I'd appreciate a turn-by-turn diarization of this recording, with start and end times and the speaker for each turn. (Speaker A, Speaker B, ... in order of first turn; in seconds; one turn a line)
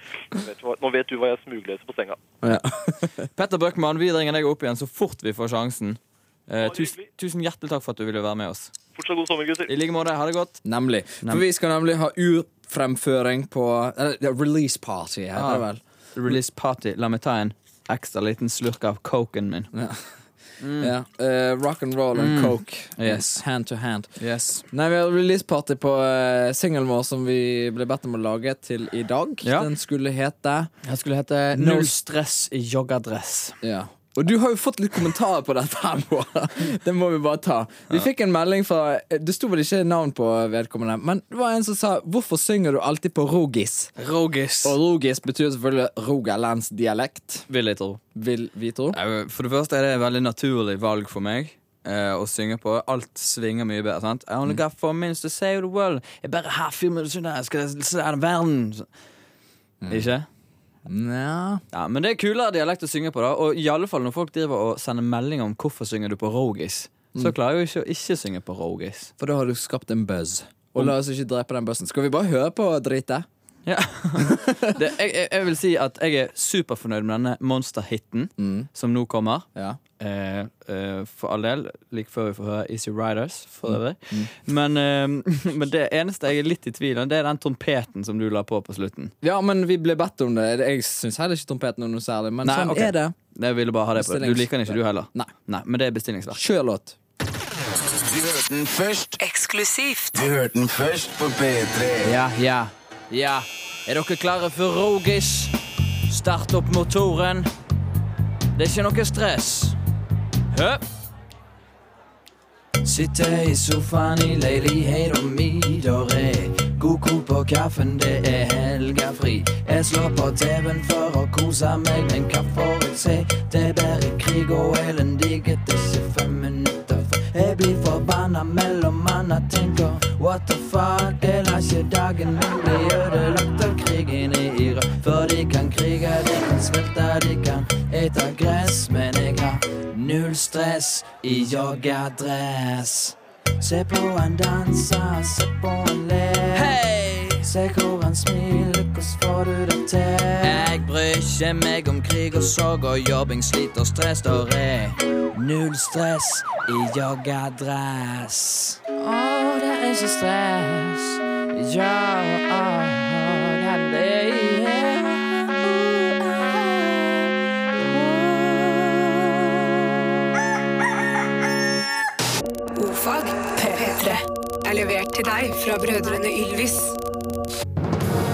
Speaker A: 0.3-2.2
Speaker B: 2.4-3.1
Speaker C: 3.4-8.7
Speaker A: 6.6-7.0
Speaker A: 8.9-9.7
Speaker C: 9.7-10.6
Speaker B: 10.7-15.8
Speaker C: 15.3-19.7
Speaker B: 19.7-20.0
Speaker C: 20.6-20.9
Speaker B: 20.8-24.1
Speaker C: 22.1-23.4
Speaker C: 24.2-24.7
Speaker B: 24.7-30.7
Speaker C: 29.4-29.7
Speaker C: 30.8-33.6
Speaker B: 31.5-31.9
Speaker B: 33.6-43.9
Speaker C: 44.0-44.8
Speaker B: 44.6-47.5
Speaker C: 47.5-48.0
Speaker B: 48.1-49.0
Speaker C: 48.9-58.9
Speaker B: 59.8-60.2
Speaker C: 59.9-60.3
Speaker B: 60.9-61.6
Speaker C: 61.7-69.1
Speaker B: 69.2-73.3
Speaker C: 73.7-79.5
Speaker B: 74.3-74.6
Speaker B: 78.4-78.7
Speaker C: 80.0-89.1
Speaker B: 89.2-93.2
Speaker C: 92.4-96.4
Speaker B: 94.0-95.3
Speaker B: 96.3-97.0
Speaker D: 98.1-99.3
Speaker E: 99.3-100.1
Speaker D: 100.1-102.1
Speaker C: 102.0-105.5
Speaker C: 106.1-107.5
Speaker C: 108.5-109.8
Speaker C: 110.5-110.8
Speaker C: 112.8-167.1
Speaker C: 167.8-169.4
Speaker E: 172.8-176.9